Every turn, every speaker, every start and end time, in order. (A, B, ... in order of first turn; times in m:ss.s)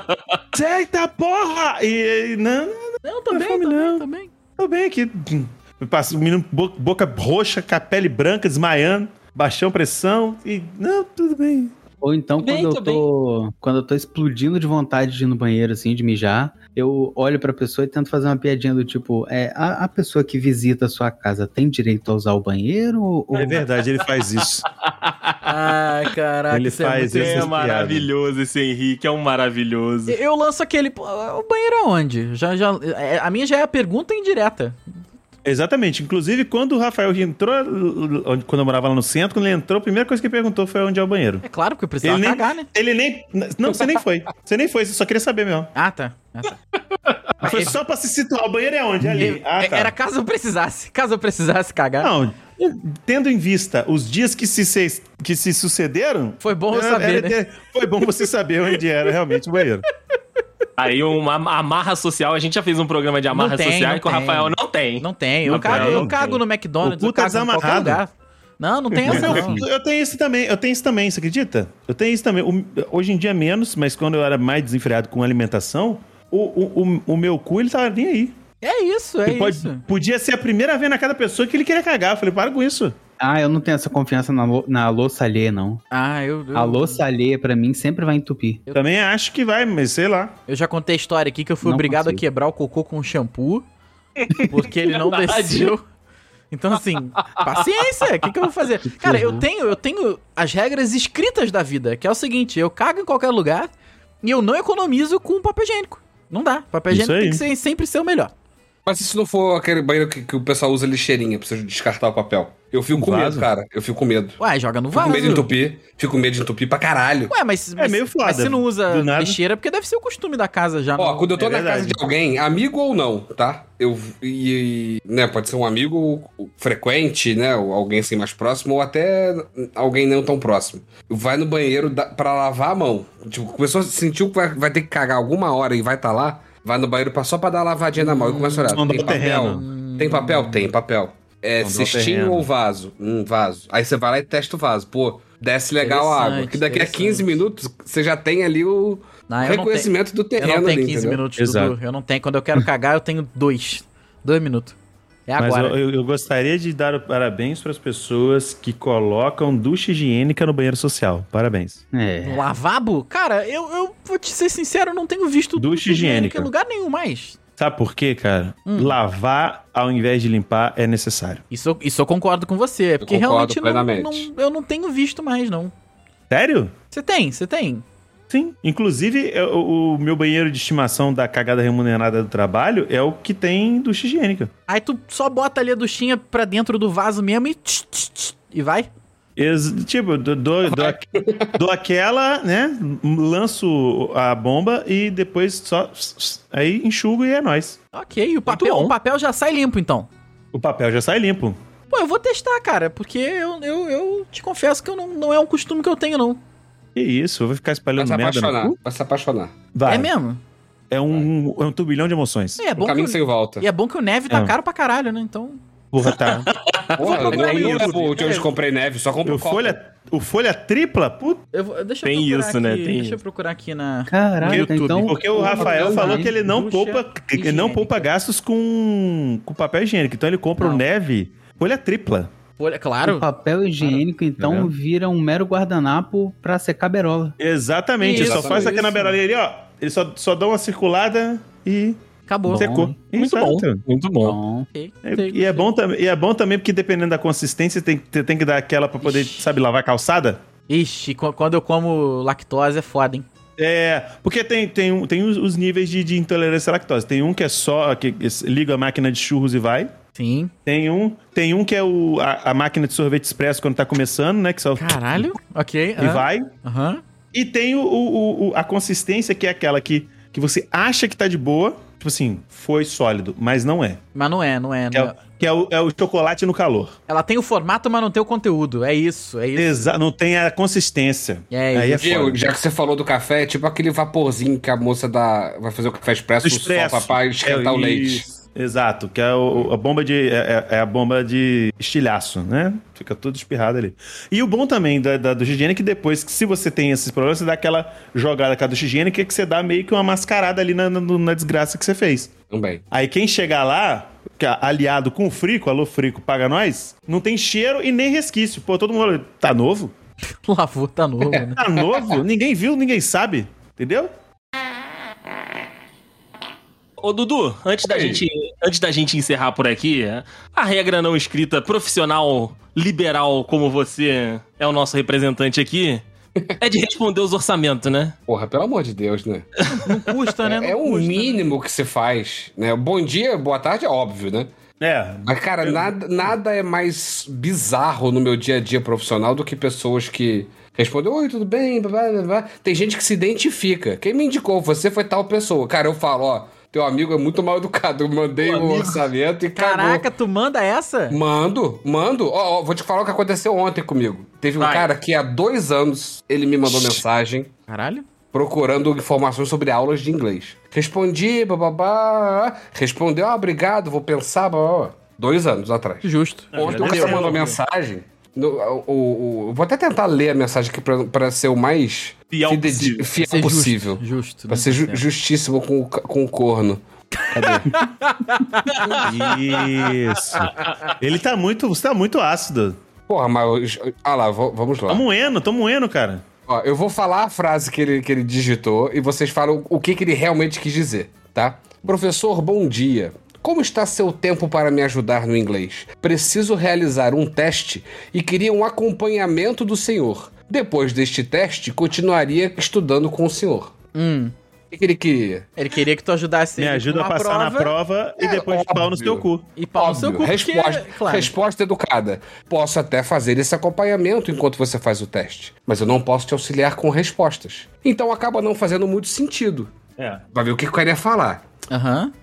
0:00.5-0:04.0 A
0:03.0-0:04.3 B
0:04.6-0:11.7 A
0:12.0-0:23.6 C
0:12.4-0:13.0 D
0:23.3-0:24.6 A
0:24.8-0:25.5 D
0:25.4-0:27.5 B
0:26.5-0:28.1 A
0:27.1-0:30.2 D
0:30.1-0:34.8 B
0:35.4-0:41.4 A
0:41.4-0:42.7 B
0:42.0-0:45.7 A
0:45.7-0:46.6 B
0:47.4-0:49.9 A
0:47.4-0:47.8 B
0:49.0-0:52.1 B
0:52.0-0:59.8 A
0:56.4-0:57.4 B
1:00.8-1:06.4 D
1:03.3-1:09.6 B
1:05.5-1:06.2 A
1:06.8-1:08.0 A
1:09.0-1:18.4 A
1:09.0-1:09.5 C
1:18.6-1:19.8 B
1:19.2-1:23.0 A
1:23.2-1:25.8 C
1:25.9-1:27.0 B
1:26.5-1:28.6 C
1:28.7-1:30.3 A
1:30.5-1:33.6 B
1:31.6-1:32.2 C
1:34.2-1:35.7 D
1:34.3-1:35.8 B
1:36.5-1:43.7 B
1:38.8-1:39.4 C
1:44.2-1:48.3 B
1:46.9-1:47.4 A
1:48.8-1:54.4 E
1:52.9-1:53.5 A
1:54.4-1:55.5 B
1:54.9-1:57.3 E
1:57.3-2:01.3 B
1:57.8-1:59.4 A
2:01.0-2:31.2 E
2:01.4-2:02.0 A
2:18.0-2:20.7 B
2:18.7-2:19.6 A
2:21.6-2:22.5 A
2:25.8-2:27.3 B
2:29.3-2:34.8 B
2:31.4-2:31.7 A
2:35.3-2:35.8 B
2:35.4-2:41.8 A
2:41.9-2:42.4 C
2:42.2-2:47.4 B
2:45.6-2:46.5 A
2:47.6-2:51.4 A
2:48.7-2:49.0 B
2:51.5-2:55.7 B
2:53.0-2:54.3 E
2:56.3-2:56.7 A
2:56.9-2:57.8 B
2:58.3-3:04.5 A
3:04.7-3:08.9 B
3:09.4-3:17.8 A
3:10.7-3:11.5 E
3:17.9-3:20.1 B
3:18.5-3:18.9 D
3:20.5-3:21.6 A
3:21.9-3:26.4 B
3:26.9-3:28.8 A
3:28.0-3:29.6 E
3:29.7-3:30.1 A
3:29.8-3:30.4 B
3:30.9-3:32.6 A
3:32.6-3:35.6 B
3:32.7-3:33.6 E
3:34.3-3:34.5 A
3:35.9-3:38.4 A
3:36.0-3:37.9 D
3:37.0-3:39.8 E
3:37.0-3:38.4 B
3:39.2-3:41.4 A
3:41.5-3:48.1 B
3:42.0-3:43.2 D
3:44.1-3:46.3 C
3:44.5-3:52.3 A
3:50.6-3:50.8 B
3:52.6-3:53.3 B
3:53.0-3:57.4 C
3:53.8-3:54.7 A
3:57.4-4:03.8 A
3:58.0-3:59.2 B
3:58.0-3:59.0 E
4:02.3-4:02.9 B
4:03.1-4:04.4 D
4:04.2-4:04.7 C
4:04.7-4:05.7 B
4:05.0-4:10.4 A
4:09.0-4:09.5 B
4:10.7-4:13.2 B
4:13.6-4:19.9 A
4:20.2-4:20.5 B
4:20.6-4:25.3 A
4:24.8-4:27.0 B
4:26.0-4:26.5 A
4:27.3-4:34.0 A
4:34.1-4:35.1 B
4:34.9-4:37.0 A
4:37.1-4:39.8 B
4:39.6-4:42.5 A
4:41.5-4:42.0 B
4:41.9-4:48.3 E
4:46.4-5:02.3 A
5:02.5-5:02.8 E
5:02.9-5:09.9 A
5:10.3-5:11.6 B
5:11.5-5:14.1 A
5:17.0-5:26.0 D
5:17.8-5:18.3 E
5:26.6-5:28.1 D
5:28.3-5:29.5 E
5:29.7-5:31.4 B
5:30.4-5:34.5 E
5:34.8-5:35.9 A
5:35.2-5:50.1 E
5:48.4-5:49.0 D
5:49.6-5:51.2 B
5:51.1-5:57.5 E
5:54.6-5:54.9 D
5:56.7-5:57.0 D
5:57.7-5:58.0 B
5:58.3-6:17.8 E
6:06.0-6:07.5 B
6:06.5-6:07.5 A
6:12.3-6:13.1 D
6:13.2-6:15.0 B
6:17.2-6:20.9 B
6:18.7-6:19.4 D
6:18.8-6:19.3 E
6:19.0-6:22.8 A
6:23.1-6:25.0 E
6:24.9-6:26.2 A
6:26.5-6:43.7 E
6:43.9-6:44.3 B
6:44.7-6:45.5 E
6:45.6-6:47.7 B
6:46.6-6:49.5 A
6:48.2-6:59.7 E
6:49.6-6:51.3 B
7:00.0-7:00.2 A
7:00.3-7:01.4 E
7:01.7-7:02.1 B